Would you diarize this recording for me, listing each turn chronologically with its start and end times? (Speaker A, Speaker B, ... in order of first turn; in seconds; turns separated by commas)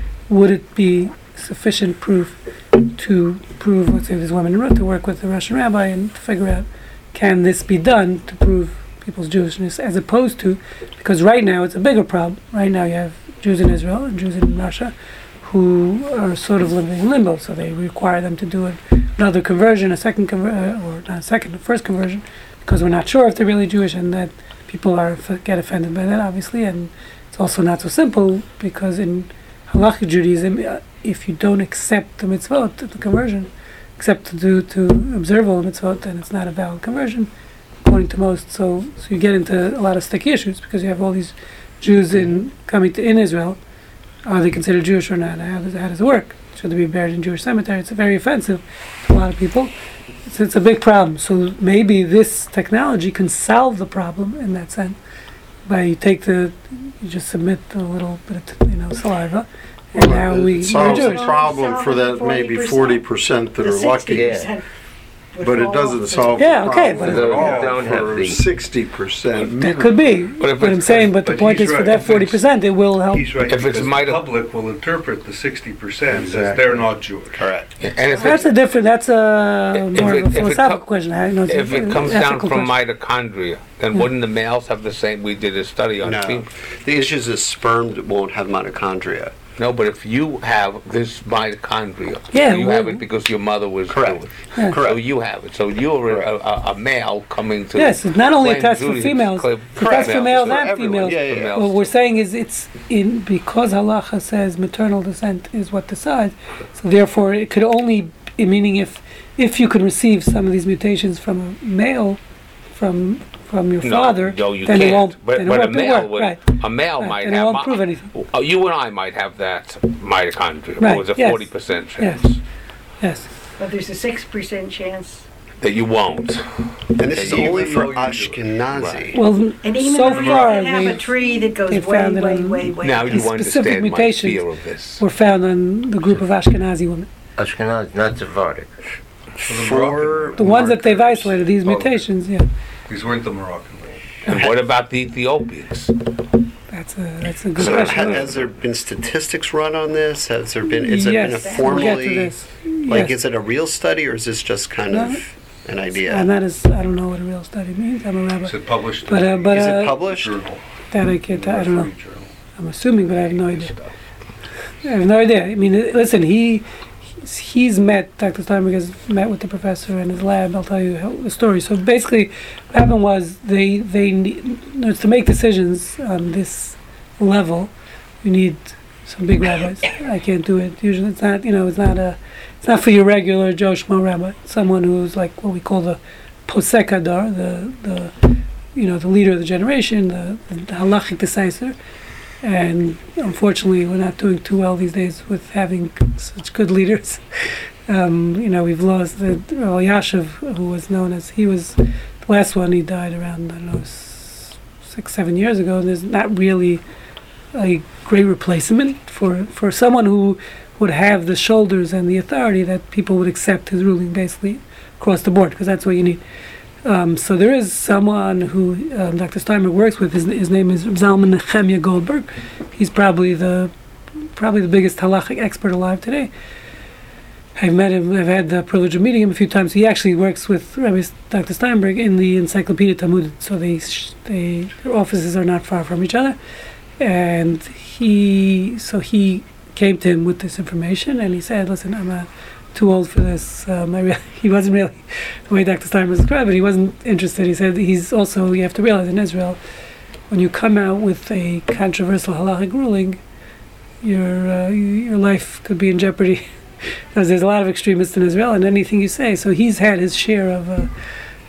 Speaker A: 0.3-37.3, Speaker A: 37.9-43.6, Speaker A: 44.3-49.7, Speaker A: 50.3-55.0, Speaker A: 55.7-61.4, Speaker B: 60.0-64.5, Speaker C: 60.7-64.6, Speaker D: 64.1-64.5, Speaker C: 65.3-67.0, Speaker B: 65.4-70.1, Speaker A: 66.4-67.3, Speaker D: 67.0-68.5, Speaker E: 67.0-68.2, Speaker F: 69.3-69.8, Speaker A: 69.6-73.3, Speaker F: 70.4-71.1, Speaker E: 70.8-77.5, Speaker F: 73.5-74.3, Speaker B: 76.1-76.9, Speaker G: 77.3-78.3, Speaker F: 77.8-78.5, Speaker A: 78.2-82.7, Speaker F: 79.9-80.9, Speaker F: 81.5-86.5, Speaker G: 86.0-89.4, Speaker F: 89.6-101.9, Speaker A: 92.3-93.0, Speaker G: 93.9-95.0, Speaker A: 97.8-112.2, Speaker G: 99.8-101.6, Speaker A: 112.7-118.1, Speaker F: 113.8-122.4, Speaker A: 120.8-122.2, Speaker A: 123.0-123.3, Speaker C: 123.6-125.2, Speaker F: 125.6-127.7, Speaker G: 127.0-129.2, Speaker E: 127.1-129.1, Speaker A: 129.1-134.4, Speaker C: 129.6-133.3, Speaker E: 130.1-130.6, Speaker F: 132.8-135.0, Speaker A: 135.0-137.1, Speaker D: 137.4-138.7, Speaker E: 139.4-142.1, Speaker G: 139.4-140.6, Speaker A: 140.4-142.4, Speaker E: 142.9-144.2, Speaker F: 144.2-145.9, Speaker G: 144.3-144.6, Speaker A: 146.7-148.3, Speaker G: 147.6-152.3, Speaker E: 147.6-148.4, Speaker A: 150.8-153.2, Speaker C: 151.4-152.0, Speaker G: 152.9-156.3, Speaker A: 154.9-155.2, Speaker A: 155.9-160.1, Speaker E: 158.4-160.6, Speaker G: 159.5-160.4, Speaker A: 160.9-161.9, Speaker E: 161.3-162.3, Speaker A: 162.6-163.7, Speaker A: 164.8-166.7, Speaker A: 167.2-191.8, Speaker A: 192.4-206.8, Speaker A: 207.5-216.2, Speaker A: 216.8-223.7, Speaker A: 224.4-226.3, Speaker A: 227.6-236.4, Speaker A: 237.0-249.6, Speaker A: 250.3-253.2, Speaker A: 254.0-260.9